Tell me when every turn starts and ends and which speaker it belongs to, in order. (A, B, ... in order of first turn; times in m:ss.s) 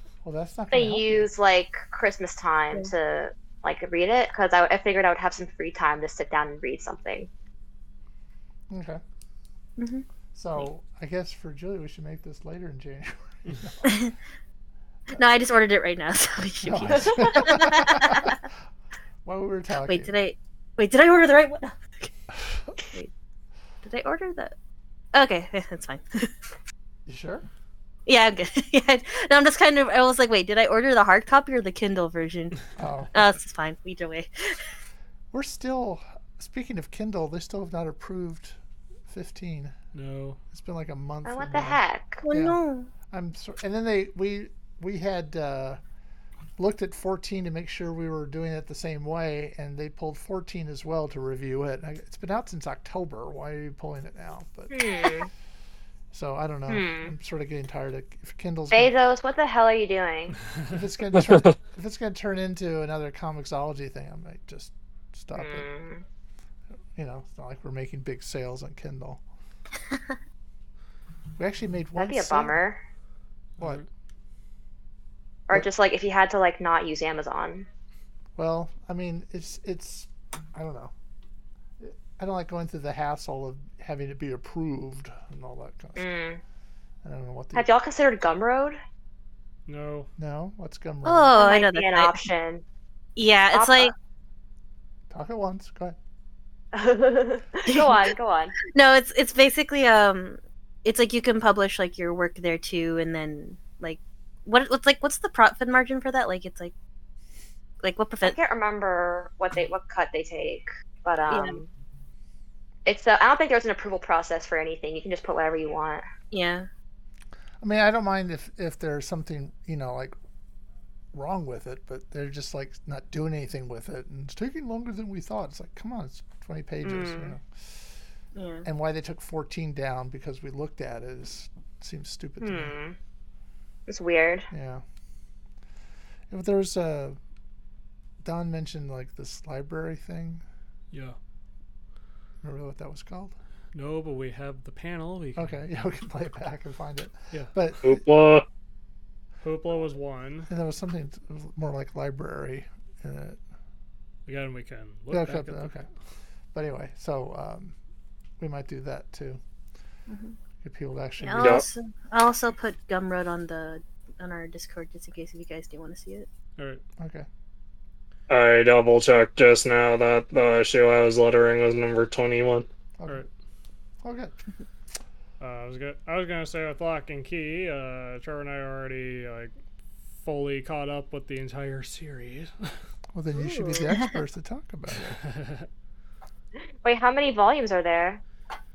0:00.2-0:01.3 A
0:00.7-0:07.3 B
0:08.7-0:09.0 A
0:09.8-0:10.0 C
0:10.3-0:13.9 A
0:13.8-0:14.1 C
0:15.1-0:18.4 C
0:16.6-0:18.4 A
0:19.2-0:20.1 A
0:19.8-0:22.1 C
0:23.8-0:24.5 C
0:25.1-0:26.3 C
0:27.1-0:27.4 A
0:28.1-0:32.6 C
0:32.8-0:33.3 A
0:33.1-0:34.6 C
0:35.3-0:39.7 A
0:39.9-0:40.4 D
0:40.5-0:42.6 A
0:41.2-0:42.2 B
0:42.2-0:42.9 C
0:43.1-0:45.8 A
0:46.6-0:55.1 A
0:54.7-0:55.3 B
0:56.1-0:58.9 A
0:56.7-0:57.1 B
0:58.7-1:00.4 B
1:00.6-1:05.7 A
1:05.4-1:06.0 B
1:06.9-1:09.2 A
1:11.4-1:12.6 A
1:12.0-1:12.8 B
1:13.6-1:13.8 D
1:15.5-1:17.7 B
1:18.4-1:20.9 A
1:21.8-1:26.1 A
1:26.0-1:26.4 B
1:27.0-1:27.7 A
1:27.5-1:28.8 B
1:29.7-1:30.1 D
1:30.2-1:31.3 A
1:31.0-1:32.2 C
1:31.4-1:32.6 B
1:33.2-1:33.9 C
1:33.5-1:33.9 B
1:35.1-1:36.0 A
1:36.7-1:38.6 B
1:37.7-1:38.0 C
1:38.7-1:46.7 C
1:47.8-1:48.4 C
1:48.2-1:51.7 B
1:51.3-1:51.6 C
1:52.8-1:56.0 B
1:56.3-1:56.7 C
1:57.6-2:00.1 A
2:01.1-2:07.8 A
2:06.8-2:07.3 B
2:08.3-2:08.6 C
2:08.6-2:12.7 A
2:12.4-2:13.0 B
2:13.9-2:14.5 B
2:14.5-2:14.8 A
2:16.3-2:17.2 A
2:18.2-2:20.4 A
2:22.4-2:23.3 A
2:23.7-2:25.5 D
2:25.4-2:28.0 A
2:27.8-2:28.4 E
2:29.4-2:30.5 D
2:30.5-2:33.4 A
2:34.2-2:35.8 D
2:35.1-2:35.8 A
2:36.5-2:37.7 A
2:38.4-2:39.4 A
2:40.1-2:40.4 C
2:40.6-2:41.6 A
2:41.2-2:46.3 C
2:41.4-2:41.6 E
2:46.6-2:46.8 D
2:47.0-2:47.3 A
2:48.3-2:52.7 E
2:53.0-2:53.2 A
2:54.0-2:54.3 A
2:55.4-2:59.5 D
3:00.2-3:02.7 D
3:03.1-3:05.2 A
3:03.4-3:03.8 B
3:05.2-3:05.6 D
3:06.8-3:08.2 B